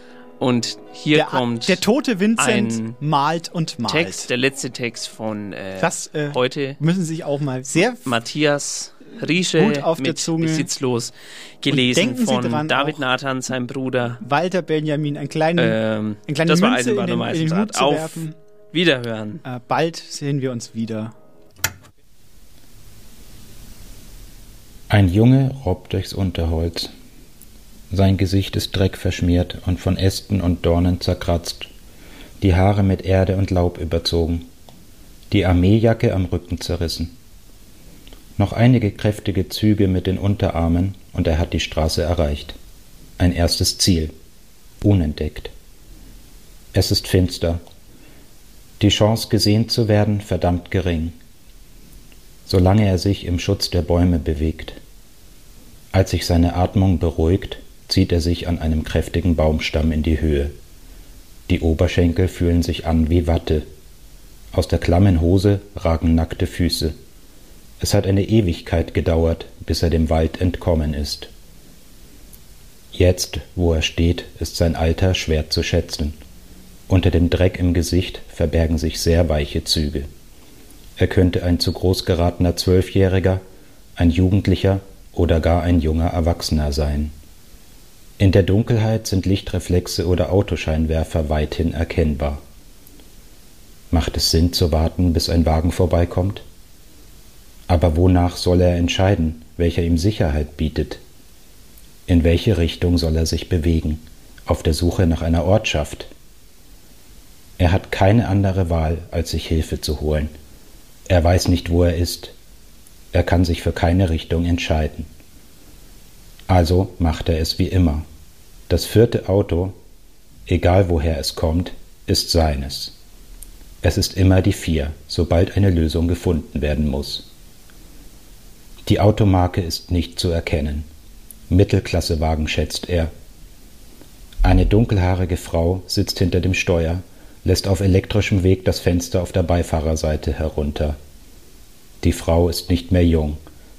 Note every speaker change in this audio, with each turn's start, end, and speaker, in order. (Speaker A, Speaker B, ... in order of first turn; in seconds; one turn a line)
Speaker A: 0.4-1.8
Speaker B: 1.1-4.3
Speaker A: 2.4-3.0
Speaker A: 3.9-6.8
Speaker B: 5.8-8.2
Speaker A: 8.0-14.2
Speaker B: 9.5-10.7
Speaker B: 11.7-13.0
Speaker B: 14.2-18.4
Speaker A: 15.6-19.4
Speaker B: 19.4-21.1
Speaker C: 24.9-26.9
Speaker C: 27.9-31.7
Speaker C: 32.4-34.5
Speaker C: 35.3-37.1
Speaker C: 38.4-42.5
Speaker C: 43.2-44.1
Speaker C: 44.8-45.5
Speaker C: 46.7-47.6
Speaker C: 48.8-51.1
Speaker C: 52.5-54.8
Speaker C: 55.9-60.5
Speaker C: 61.5-63.7
Speaker C: 64.5-67.0
Speaker C: 67.8-71.3
Speaker C: 72.9-76.2
Speaker C: 76.9-80.1
Speaker C: 81.0-83.4
Speaker C: 84.0-87.1
Speaker C: 88.2-92.4
Speaker C: 93.9-96.4
Speaker C: 97.7-101.0
Speaker C: 102.1-106.1
Speaker C: 107.6-110.3
Speaker C: 111.1-112.3
Speaker C: 113.1-115.1
Speaker C: 116.5-118.0
Speaker C: 118.7-119.8
Speaker C: 120.5-122.9
Speaker C: 123.8-127.3
Speaker C: 128.8-130.9
Speaker C: 131.5-133.1
Speaker C: 134.4-141.0
Speaker C: 142.0-143.4